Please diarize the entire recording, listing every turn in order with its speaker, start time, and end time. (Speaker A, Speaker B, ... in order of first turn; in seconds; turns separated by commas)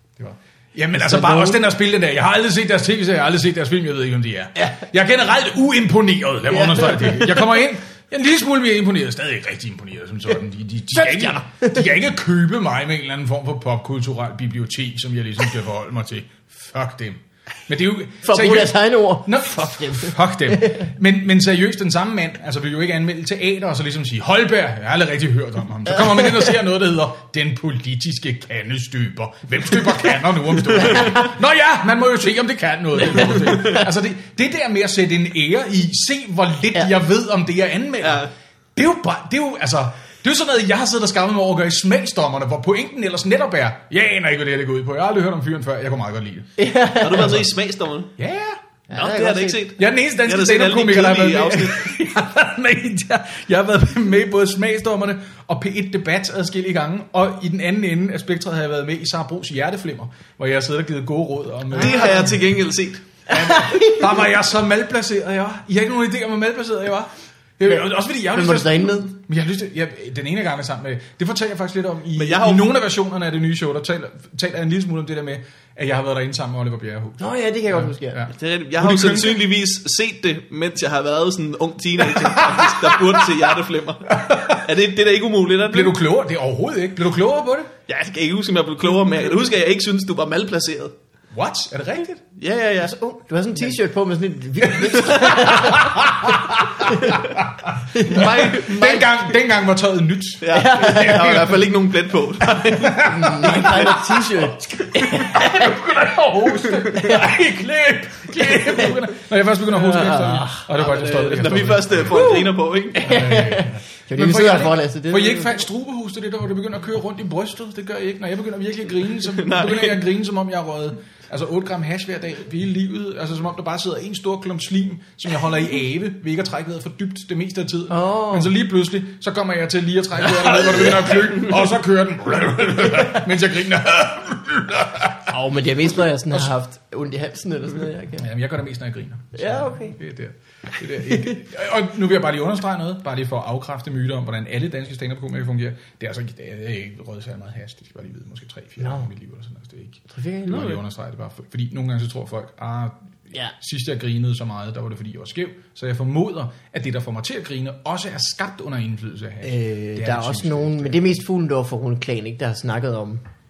Speaker A: 0.2-46.5, Speaker B: 0.9-1.6, Speaker B: 4.6-4.9, Speaker B: 6.5-7.4, Speaker B: 10.9-11.8, Speaker B: 18.2-20.9, Speaker B: 30.9-31.3, Speaker C: 33.4-33.8, Speaker C: 38.0-38.3, Speaker B: 46.6-47.5, Speaker C: 47.0-48.1, Speaker A: 48.2-48.6, Speaker B: 48.9-49.6, Speaker C: 48.9-51.9, Speaker A: 49.8-62.4, Speaker C: 61.8-63.0, Speaker B: 61.8-62.3, Speaker A: 63.3-79.5, Speaker B: 63.3-64.1, Speaker B: 67.7-69.1, Speaker C: 72.2-72.7, Speaker B: 77.2-78.2, Speaker C: 78.3-86.0, Speaker A: 82.2-83.4, Speaker A: 84.1-84.7, Speaker A: 85.7-87.7, Speaker C: 87.9-90.9, Speaker A: 91.3-92.2, Speaker C: 92.4-92.9, Speaker B: 92.8-97.3, Speaker A: 94.6-101.7, Speaker B: 97.9-98.5, Speaker C: 98.1-99.1, Speaker C: 100.4-103.9, Speaker B: 100.5-101.5, Speaker A: 102.7-112.5, Speaker B: 103.0-105.7, Speaker B: 107.0-107.3, Speaker B: 109.7-110.7, Speaker C: 110.8-113.1, Speaker B: 112.1-115.6, Speaker A: 113.0-135.3, Speaker C: 119.2-120.0, Speaker B: 127.9-128.5, Speaker B: 135.3-138.3, Speaker A: 138.2-161.2, Speaker B: 139.3-140.0, Speaker B: 148.8-149.1, Speaker B: 150.1-150.8, Speaker C: 150.5-150.8, Speaker B: 159.4-163.2